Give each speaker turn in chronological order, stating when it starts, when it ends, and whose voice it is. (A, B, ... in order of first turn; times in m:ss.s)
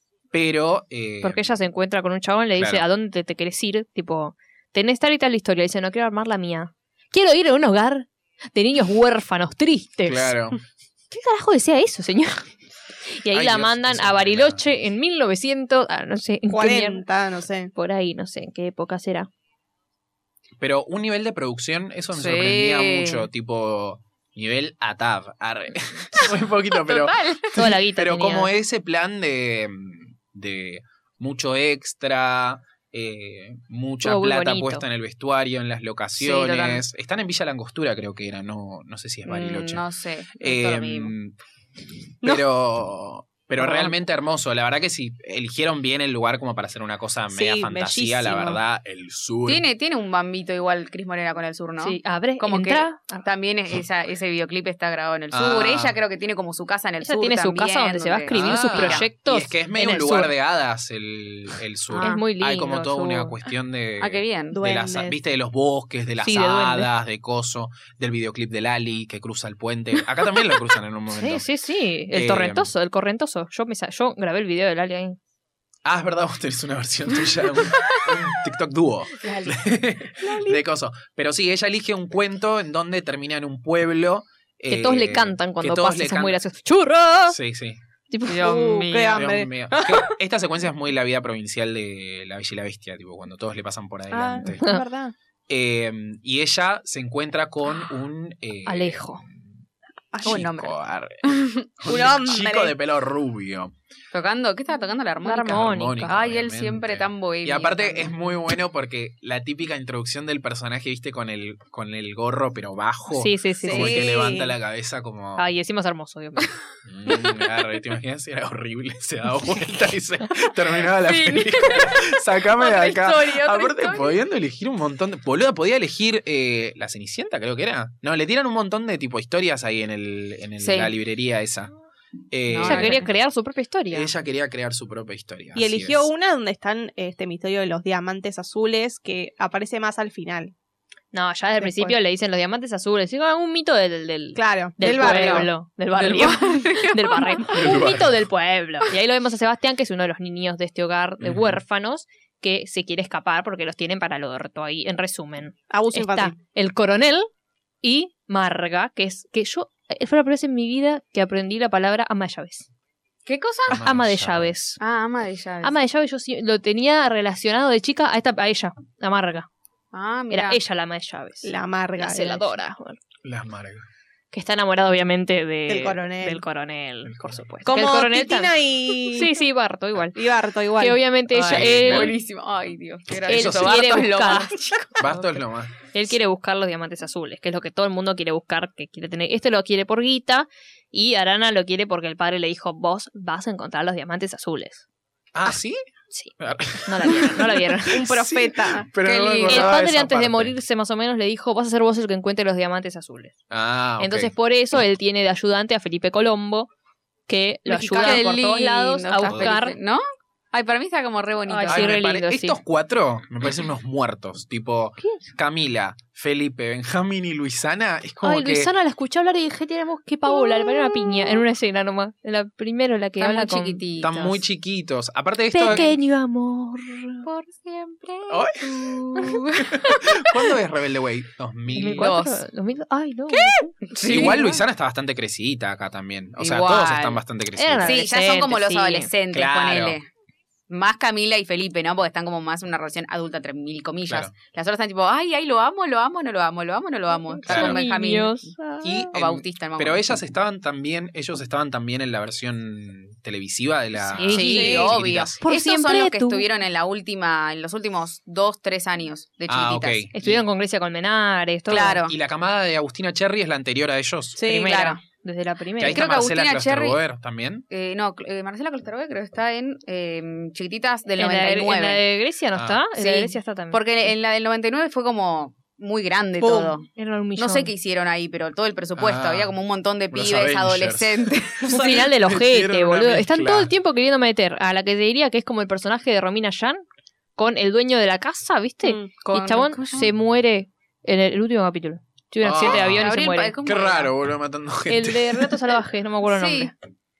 0:00.3-0:01.6 A
0:01.2-0:10.3 B
0:02.6-0:02.8 A
0:10.0-0:10.6 A
0:11.1-0:12.4 B
0:13.1-0:17.0 B
0:13.3-0:14.8 A
0:16.5-0:17.7 C
0:17.7-0:19.3 B
0:20.6-0:39.8 A
0:22.2-0:23.3 D
0:26.2-0:27.6 D
0:27.5-0:28.5 B
0:34.0-0:34.8 B
0:36.2-0:36.8 D
0:39.3-0:41.1 D
0:40.4-0:41.3 A
0:42.2-0:49.6 A
0:47.3-0:48.6 C
0:49.4-0:59.1 D
0:51.8-0:53.2 B
0:55.3-0:56.0 A
0:57.0-1:00.3 B
0:58.3-1:11.4 A
1:01.9-1:02.2 D
1:02.0-1:03.4 B
1:04.0-1:04.6 D
1:04.5-1:05.1 C
1:06.2-1:06.9 B
1:11.1-1:15.2 B
1:12.1-1:12.7 A
1:15.8-1:26.4 A
1:20.2-1:20.6 C
1:24.7-1:27.4 B
1:27.3-1:27.8 A
1:28.1-1:28.7 B
1:28.3-1:29.4 D
1:28.4-1:30.2 C
1:29.1-1:34.6 A
1:34.1-1:35.1 C
1:34.6-1:34.8 B
1:35.5-1:39.6 A
1:38.6-1:39.2 B
1:40.1-1:40.4 C
1:40.2-1:41.7 D
1:40.2-1:43.7 A
1:41.8-1:42.7 C
1:44.1-1:48.1 D
1:45.2-1:46.2 B
1:45.5-1:55.5 A
1:53.1-1:54.0 B
1:53.6-1:54.5 C
1:55.4-1:56.5 B
1:56.8-2:11.7 A
2:01.0-2:04.1 D
2:10.6-2:10.9 D
2:12.3-2:13.1 A
2:12.5-2:13.1 D
2:12.6-2:14.1 B
2:13.9-2:16.1 A
2:15.5-2:20.5 C
2:21.1-2:37.3 B
2:21.6-2:22.0 C
2:24.4-2:25.5 C
2:24.9-2:27.3 D
2:27.5-2:28.2 A
2:31.2-2:31.6 A
2:35.7-2:36.4 C
2:37.8-2:42.7 B
2:43.2-2:43.8 D
2:43.7-2:44.5 A
2:43.7-2:44.8 B
2:44.8-2:45.7 D
2:45.6-2:49.5 B
2:49.9-2:50.6 D
2:50.3-2:53.0 B
2:51.4-2:52.5 C
2:53.2-2:53.8 A
2:54.3-3:00.2 B
2:55.7-2:56.4 C
2:57.0-2:57.4 A
2:57.6-2:59.3 C
3:00.1-3:01.0 C
3:00.8-3:02.1 B
3:01.3-3:05.0 D
3:01.4-3:02.1 A
3:03.2-3:03.8 A
3:03.3-3:04.6 B
3:05.0-3:05.7 A
3:05.9-3:14.8 B
3:15.3-3:15.8 A
3:16.1-3:18.0 B
3:16.4-3:20.5 A
3:17.9-3:18.9 C
3:19.0-3:19.8 D
3:19.4-3:23.3 B
3:23.5-3:24.3 A
3:24.0-3:26.7 B
3:27.3-3:29.8 B
3:27.7-3:28.2 C
3:28.0-3:31.9 D
3:31.5-3:32.6 B
3:31.7-3:38.7 A
3:35.0-3:35.2 B
3:38.2-3:43.8 B
3:43.2-3:44.4 D
3:44.0-3:45.9 A
3:45.5-3:47.2 B
3:47.2-3:50.0 D
3:48.3-3:49.0 A
3:49.6-3:52.1 A
3:51.7-3:54.3 B
3:51.8-3:52.4 D
3:53.3-3:54.6 D
3:54.0-3:58.0 A
3:56.4-3:57.2 D
3:57.6-3:59.1 B
3:57.8-4:00.1 D
3:59.3-4:00.0 A
4:00.7-4:08.5 D
4:04.0-4:04.3 A
4:07.4-4:08.8 B
4:07.4-4:07.8 A
4:08.8-4:15.4 A
4:09.1-4:10.1 D
4:14.1-4:16.4 B
4:14.3-4:20.1 D
4:14.5-4:14.9 C
4:19.5-4:20.4 A
4:20.1-4:22.0 B
4:21.7-4:22.1 D
4:22.0-4:24.6 A
4:24.4-4:24.8 C
4:24.5-4:26.1 B
4:24.6-4:25.0 D
4:25.8-4:27.6 A
4:25.9-4:27.0 D
4:27.7-4:32.0 D
4:31.2-4:33.8 B
4:32.5-4:32.8 A
4:33.0-4:42.0 D
4:36.4-4:36.7 C
4:36.9-4:37.7 B
4:39.0-4:39.5 A
4:40.1-4:43.7 A
4:41.7-4:46.8 B
4:41.7-4:42.0 C
4:47.4-4:53.5 B
4:48.8-4:49.1 C
4:49.2-4:50.1 D
4:52.4-4:55.6 A
4:52.6-4:54.1 D
4:54.9-4:56.7 B
4:56.2-4:56.7 D